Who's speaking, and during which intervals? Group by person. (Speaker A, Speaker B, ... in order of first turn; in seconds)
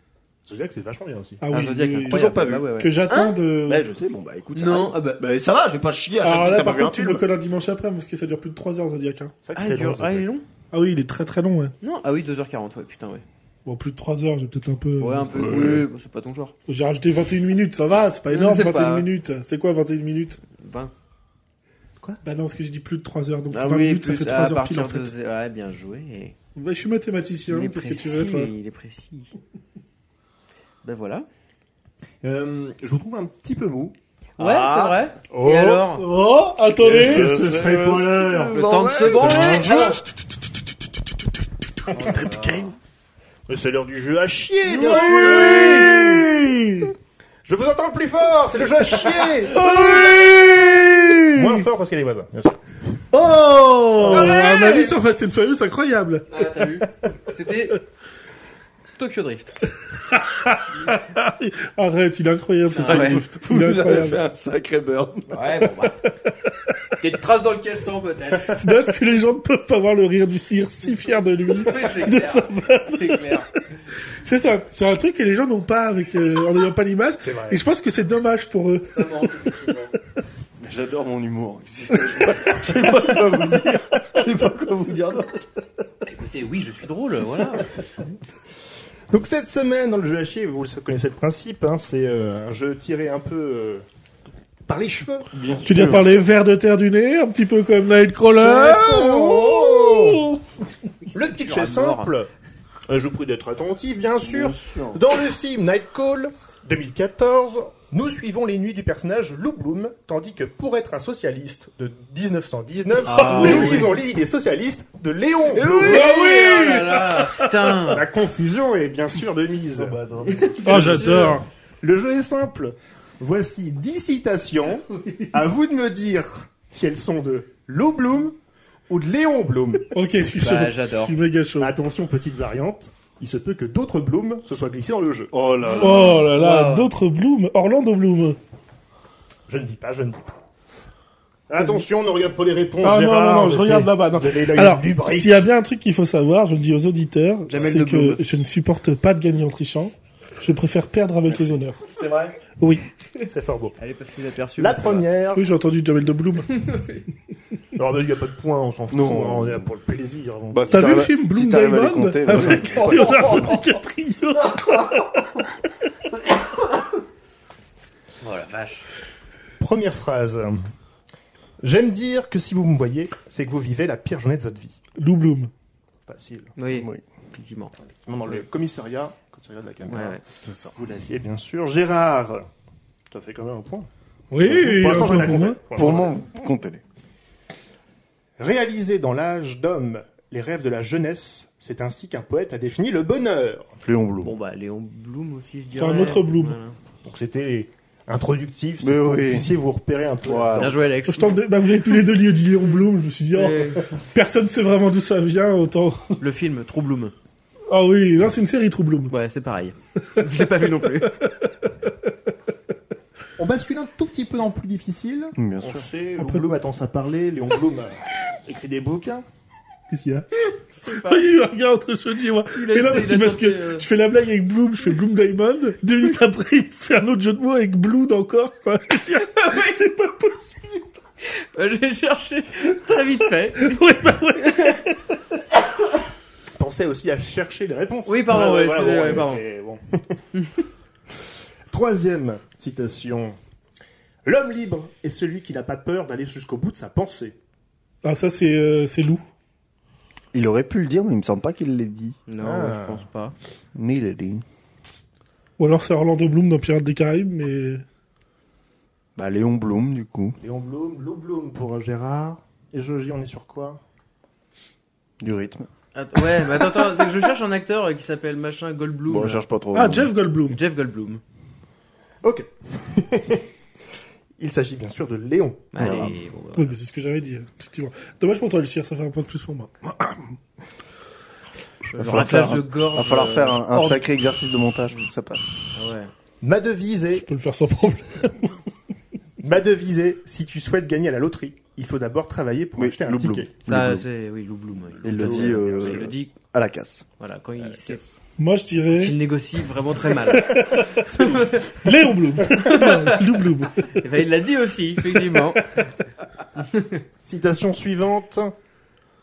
Speaker A: 0.5-1.4, 9.4-10.3, 32.2-34.0, 35.3-35.9, 36.8-38.6, 43.5-46.2, 47.4-50.3, 51.3-52.8, 77.2-77.6, 82.8-83.1, 89.1-93.8, 94.7-95.3, 98.3-100.3, 101.1-102.3, 102.9-116.0, 117.9-120.0, 120.7-128.4, 128.9-129.9, 131.6-135.3, 139.5-140.3, 141.5-145.4, 152.0-152.3, 153.3-153.8, 154.6-155.4, 157.7-161.1, 169.6-170.7, 171.6-174.8, 176.1-176.5, 177.8-182.5, 183.1-183.9, 184.4-186.1, 188.4-193.7, 197.0-200.8, 213.4-219.2, 219.9-220.2, 236.6-240.2, 241.7-243.4, 244.2-247.4, 252.4-253.1, 260.4-263.8, 272.2-273.5, 274.4-276.0, 286.4-287.9, 289.4-293.5, 295.0-296.1, 297.6-298.2, 300.9-301.6, 307.2-308.5
Speaker B: 1.4-3.9, 6.2-9.3, 10.7-11.7, 13.7-15.6, 16.7-20.4, 22.2-25.1, 26.5-28.5, 36.0-37.4, 39.1-42.7, 44.8-46.6, 49.5-51.6, 53.1-56.8, 59.9-64.2, 65.8-66.8, 68.5-79.6, 95.6-100.4, 115.7-116.4, 117.0-117.9, 120.6-121.5, 129.9-131.7, 135.8-138.4, 142.8-151.9, 152.6-152.8, 155.3-156.6, 160.7-165.7, 174.9-175.5, 184.3-185.6, 195.7-196.6, 201.1-206.2, 207.7-209.1, 210.2-211.5, 216.2-216.4, 220.9-230.9, 233.5-235.1, 248.0-249.2, 255.6-257.8, 269.7-270.6, 276.5-280.3, 287.1-288.6, 298.4-299.1, 300.4-300.9, 301.7-304.0
Speaker C: 1.5-3.4, 4.5-5.2, 9.5-10.4, 11.8-13.2, 15.0-16.5, 18.3-19.1, 20.5-20.9, 23.5-26.4, 27.4-29.3, 30.8-31.2, 34.4-36.1, 38.5-40.0, 41.9-42.7, 44.8-45.9, 54.0-55.0, 56.3-57.8, 58.9-59.6, 62.7-63.2, 65.3-66.0, 67.0-68.7, 71.5-73.5, 78.9-79.9, 86.0-87.8, 101.0-102.1, 113.0-113.9, 115.6-118.0, 120.2-121.4, 130.4-131.2, 135.7-136.9, 147.5-148.2, 153.8-155.1, 156.5-157.0, 162.4-163.7, 168.2-168.9, 176.6-177.7, 179.9-180.2, 194.2-196.8, 200.5-201.4, 203.3-203.9, 206.2-207.1, 209.1-211.1, 220.4-221.2, 222.5-223.8, 229.3-229.8, 231.2-234.8, 238.1-239.4, 252.3-253.3, 265.9-269.4, 270.5-271.2, 275.7-276.8, 281.9-284.0, 285.7-286.1, 293.6-296.3, 297.2-298.2, 298.9-301.9, 302.6-303.2, 303.8-305.8, 306.6-307.0
Speaker D: 1.9-2.7, 3.7-7.2, 15.3-15.8, 34.4-35.0, 36.8-39.8, 44.9-46.2, 49.6-51.1, 53.3-54.1, 62.8-65.5, 80.6-85.5, 95.3-96.2, 104.2-105.0, 113.4-113.8, 115.5-117.0, 119.8-121.1, 135.3-136.2, 158.9-159.7, 160.5-163.1, 176.7-177.0, 185.7-186.8, 193.8-194.3, 198.8-199.5, 200.2-200.8, 215.4-215.9, 250.3-252.2, 253.7-254.4, 259.1-260.4, 265.2-265.7, 269.1-270.1, 275.8-276.2, 281.9-285.5, 292.8-294.1, 295.0-297.1